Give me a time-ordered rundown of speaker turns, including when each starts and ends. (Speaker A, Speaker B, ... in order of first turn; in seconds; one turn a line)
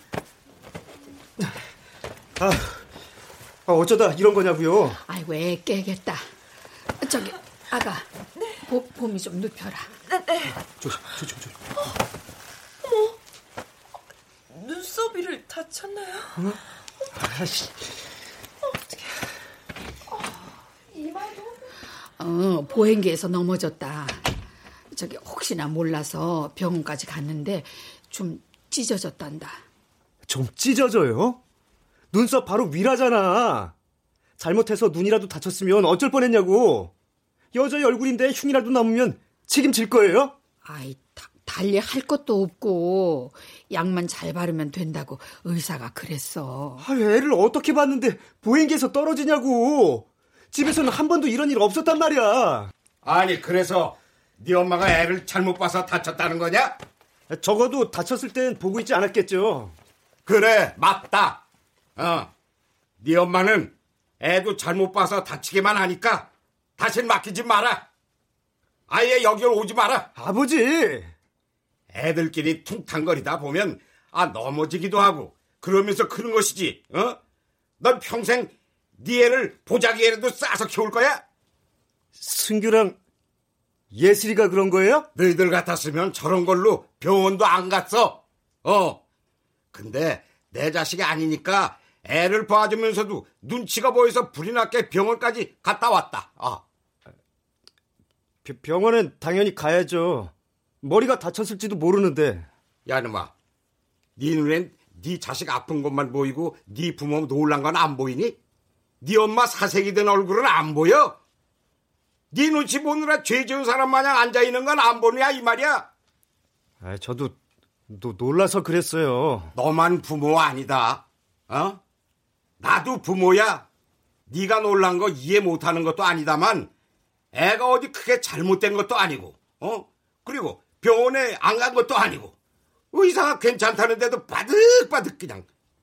Speaker A: 2.4-2.8
Speaker A: 3.7-5.0
Speaker B: 5.1-6.2
Speaker B: 7.0-8.1
Speaker B: 8.7-9.9
Speaker C: 10.1-10.6
Speaker A: 10.8-11.5
Speaker C: 12.8-13.2
Speaker C: 14.5-16.6
Speaker A: 17.2-17.7
Speaker C: 18.6-19.0
Speaker C: 20.9-21.6
Speaker B: 22.2-24.3
Speaker B: 24.9-29.6
Speaker A: 30.3-31.4
Speaker A: 32.1-33.7
Speaker A: 34.4-36.9
Speaker A: 37.5-40.4
Speaker B: 40.6-46.9
Speaker A: 46.8-52.7
Speaker D: 53.0-56.8
Speaker A: 57.3-59.8
Speaker D: 60.3-61.4
Speaker D: 62.0-62.3
Speaker D: 63.0-67.8
Speaker D: 68.9-70.1
Speaker A: 70.2-71.1
Speaker D: 71.9-77.2
Speaker D: 77.8-81.2
Speaker A: 82.2-83.0
Speaker A: 83.9-85.1
Speaker D: 85.2-89.0
Speaker D: 89.7-96.6
Speaker A: 98.4-102.5
Speaker D: 102.9-103.3
Speaker D: 104.2-108.4
Speaker D: 109.0-111.2
Speaker D: 112.3-115.9
Speaker A: 116.8-117.4
Speaker A: 117.9-119.5
Speaker D: 119.5-121.8
Speaker D: 122.6-123.7
Speaker D: 124.3-126.7
Speaker D: 127.3-132.3
Speaker D: 132.9-135.5